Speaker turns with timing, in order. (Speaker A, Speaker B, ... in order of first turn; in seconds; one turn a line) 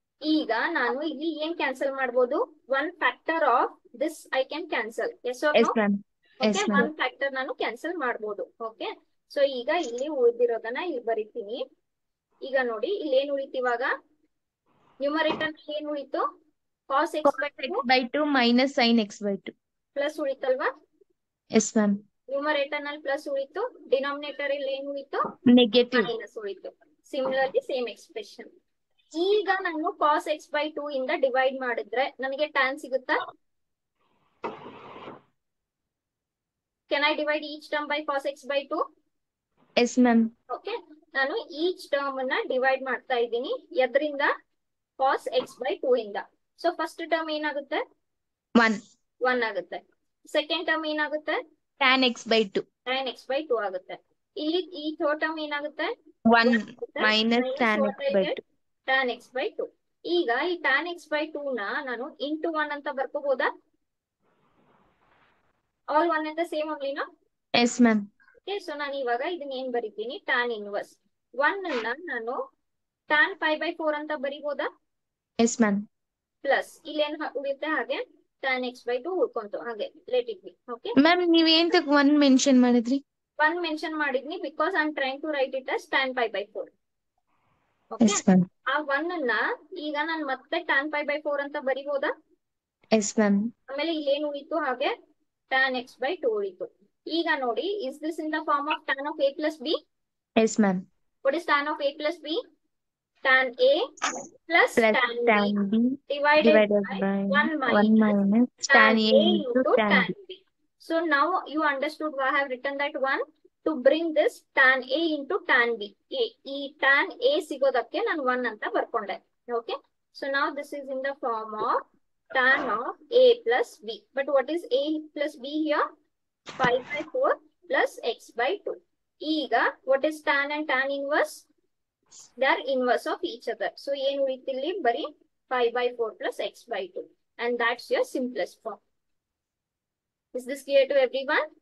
Speaker A: 0.2-5.8
Speaker B: 5.5-6.9
Speaker A: 6.4-11.6
Speaker A: 12.4-13.9
Speaker A: 15.0-16.2
Speaker A: 16.9-17.8
Speaker B: 17.2-19.5
Speaker A: 19.9-20.7
Speaker B: 21.5-22.0
Speaker A: 22.3-25.3
Speaker B: 25.5-26.1
Speaker A: 25.9-28.5
Speaker A: 29.1-33.2
Speaker A: 36.9-38.8
Speaker B: 39.8-40.3
Speaker A: 40.5-44.3
Speaker A: 45.0-47.8
Speaker B: 48.5-48.8
Speaker A: 49.2-51.4
Speaker B: 51.8-52.6
Speaker A: 52.9-55.9
Speaker B: 56.3-58.4
Speaker A: 56.4-63.5
Speaker A: 65.9-67.0
Speaker B: 67.5-68.0
Speaker A: 68.5-72.4
Speaker A: 73.1-74.7
Speaker B: 75.4-75.9
Speaker A: 76.4-81.0
Speaker B: 81.0-83.0
Speaker A: 83.4-86.7
Speaker A: 87.9-92.1
Speaker B: 88.0-88.5
Speaker B: 92.9-93.5
Speaker A: 93.7-94.9
Speaker A: 95.5-99.8
Speaker B: 100.4-100.9
Speaker A: 101.2-102.4
Speaker A: 103.2-103.9
Speaker A: 104.5-105.5
Speaker B: 104.8-110.1
Speaker A: 106.1-108.1
Speaker A: 108.7-125.8
Speaker A: 126.6-131.5
Speaker A: 132.4-138.8
Speaker A: 140.3-141.4